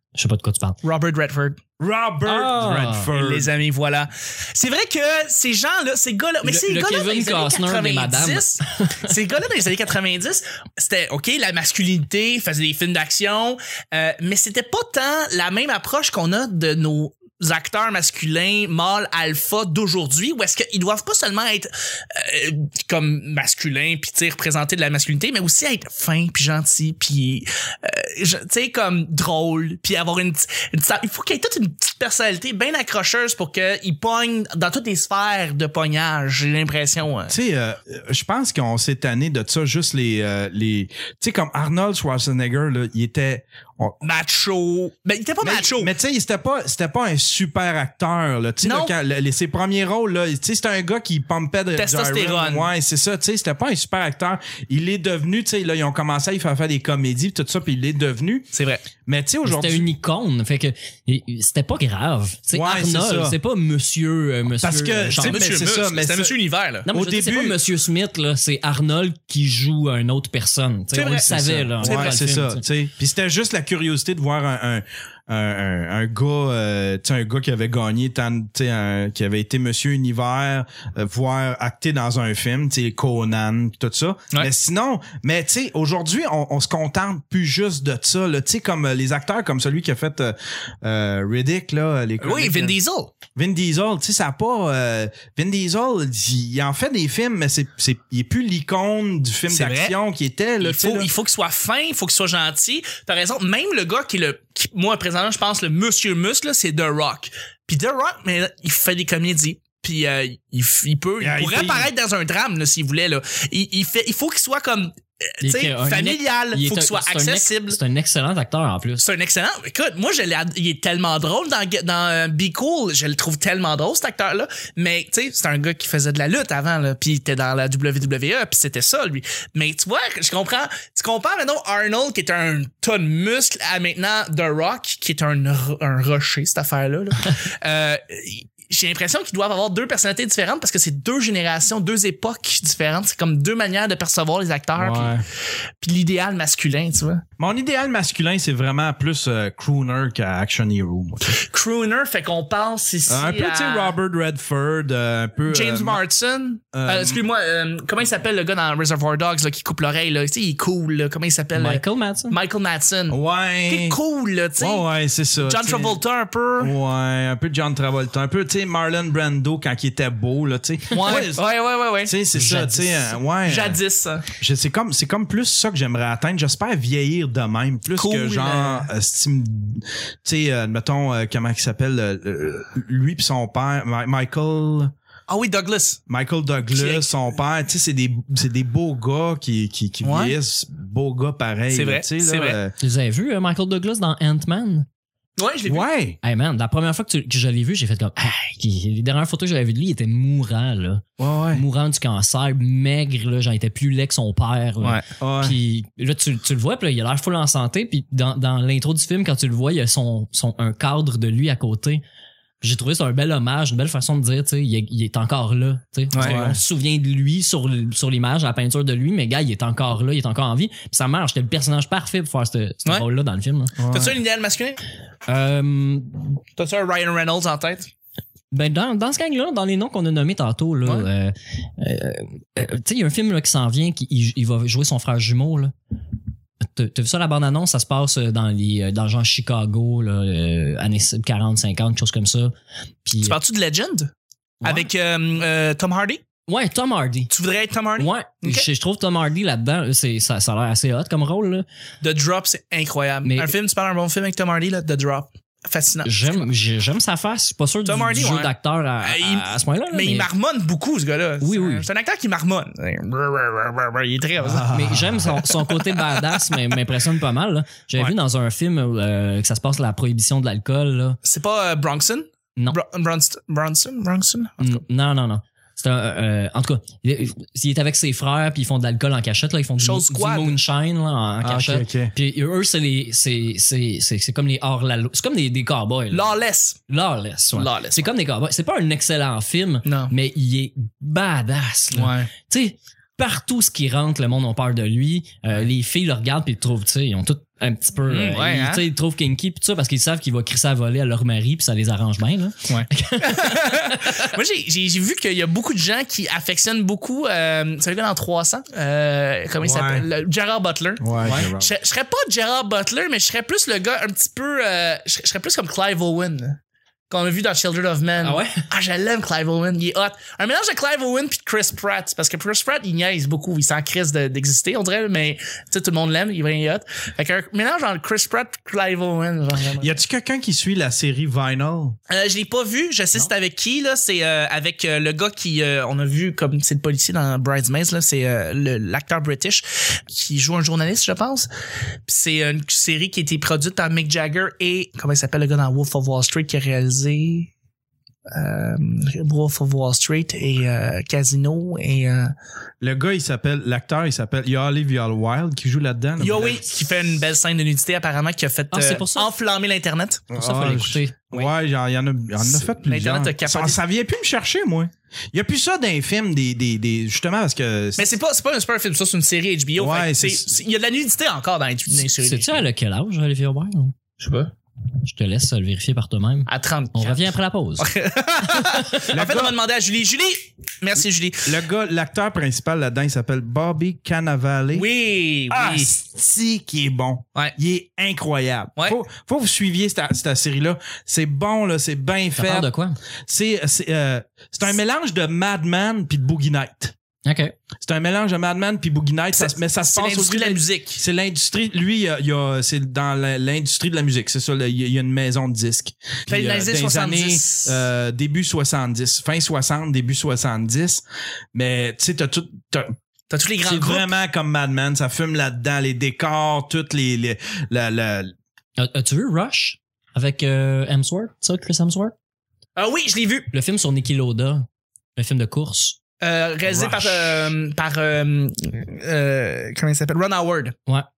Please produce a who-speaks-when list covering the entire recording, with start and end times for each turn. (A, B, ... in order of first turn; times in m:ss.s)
0:00.2-0:00.8 A
0:00.8-0:01.6 B
0:01.8-0:03.5 C
0:02.2-0:03.1 A
0:03.1-0:37.4 B
0:06.4-0:09.1 A
0:37.3-0:44.0 C
0:44.0-0:45.9 B
0:45.4-0:58.5 C
0:48.6-0:48.9 B
0:51.8-0:52.7 B
0:58.5-0:58.8 B
0:59.0-0:59.9 C
0:59.4-1:05.4 A
1:02.5-1:03.4 C
1:04.6-1:06.4 C
1:05.2-1:06.9 B
1:06.9-1:12.6 A
1:06.9-1:07.6 C
1:10.9-1:12.2 B
1:11.8-1:32.8 C
1:32.2-1:33.1 B
1:33.4-1:41.1 C
1:39.5-1:40.0 B
1:40.6-1:57.8 B
1:51.2-1:51.9 C
1:55.4-1:59.0 A
1:59.0-2:25.2 B
2:24.8-2:25.2 C
2:25.8-2:27.2 B
2:27.4-2:31.4 C
2:31.3-2:34.0 B
2:33.1-2:36.0 C
2:35.5-2:44.9 B
2:36.7-2:37.2 C
2:41.6-2:42.4 A
2:43.1-2:44.0 C
2:44.6-2:46.0 C
2:45.4-2:46.7 B
2:46.6-2:51.4 C
2:50.9-2:52.7 B
2:52.0-2:53.8 C
2:52.4-2:52.9 A
2:53.4-2:54.3 B
2:54.4-3:04.9 C
2:58.0-2:58.9 B
3:05.3-3:06.0 B
3:06.1-3:12.8 C
3:06.7-3:07.3 B
3:10.0-3:10.4 B
3:11.7-3:12.6 B
3:12.8-3:14.9 A
3:15.4-3:15.9 B
3:15.7-3:16.2 C
3:16.2-3:32.0 A
3:21.2-3:21.6 C
3:25.2-3:25.6 C
3:32.6-3:43.8 A
3:36.1-3:36.4 B
3:36.2-3:36.6 C
3:43.8-3:44.2 C
3:43.9-3:44.8 B
3:45.3-3:46.4 A
3:46.6-3:47.9 B
3:48.5-3:55.7 A
3:56.6-4:02.5 A
4:03.0-4:03.4 A
4:03.2-4:04.1 B
4:04.6-4:04.9 A
4:04.6-4:06.2 B
4:06.5-4:07.3 A
4:07.3-4:08.7 B
4:08.0-4:11.6 A
4:12.0-4:16.4 B
4:13.2-4:13.5 A
4:16.0-4:20.3 A
4:17.8-4:24.7 B
4:21.4-4:21.9 A
4:24.4-4:25.3 C
4:24.6-4:31.2 A
4:25.3-4:26.6 B
4:31.2-4:34.8 B
4:34.6-4:46.3 A
4:39.8-4:40.6 B
4:41.4-4:42.1 C
4:46.1-4:46.8 B
4:46.9-5:04.3 A
4:47.6-4:48.1 B
4:49.8-4:50.1 B
4:52.0-4:52.3 B
4:58.1-4:58.8 B
5:02.7-5:16.6 B
5:09.6-5:10.1 C
5:11.0-5:11.8 C
5:11.2-5:11.5 A
5:17.1-5:30.0 B
5:18.2-5:18.6 A
5:29.8-5:32.0 C
5:32.1-5:41.5 B
5:42.1-5:47.5 B
5:48.3-5:52.3 B
5:52.8-5:56.6 C
5:56.2-6:00.3 B
5:58.7-5:59.3 A
6:00.3-6:08.1 C
6:00.4-6:01.2 A
6:02.4-6:03.8 B
6:08.0-6:12.6 B
6:09.8-6:10.5 C
6:12.2-6:14.0 A
6:14.2-6:14.5 B
6:15.0-6:17.9 A
6:16.5-6:17.3 B
6:17.8-6:21.6 B
6:18.7-6:19.0 A
6:19.1-6:19.6 C
6:21.4-6:24.9 C
6:24.7-6:25.9 B
6:25.5-6:32.7 C
6:32.4-6:33.0 A
6:33.3-6:36.9 C
6:37.2-6:37.5 A
6:37.8-6:51.0 C
6:39.4-6:41.0 B
6:46.3-6:47.9 B
6:51.5-6:53.0 C
6:53.3-6:54.1 B
6:53.6-6:58.3 C
6:58.8-7:02.2 A
7:02.8-7:03.5 B
7:03.5-7:06.0 A
7:06.2-7:10.8 B
7:06.7-7:07.1 C
7:06.8-7:07.4 A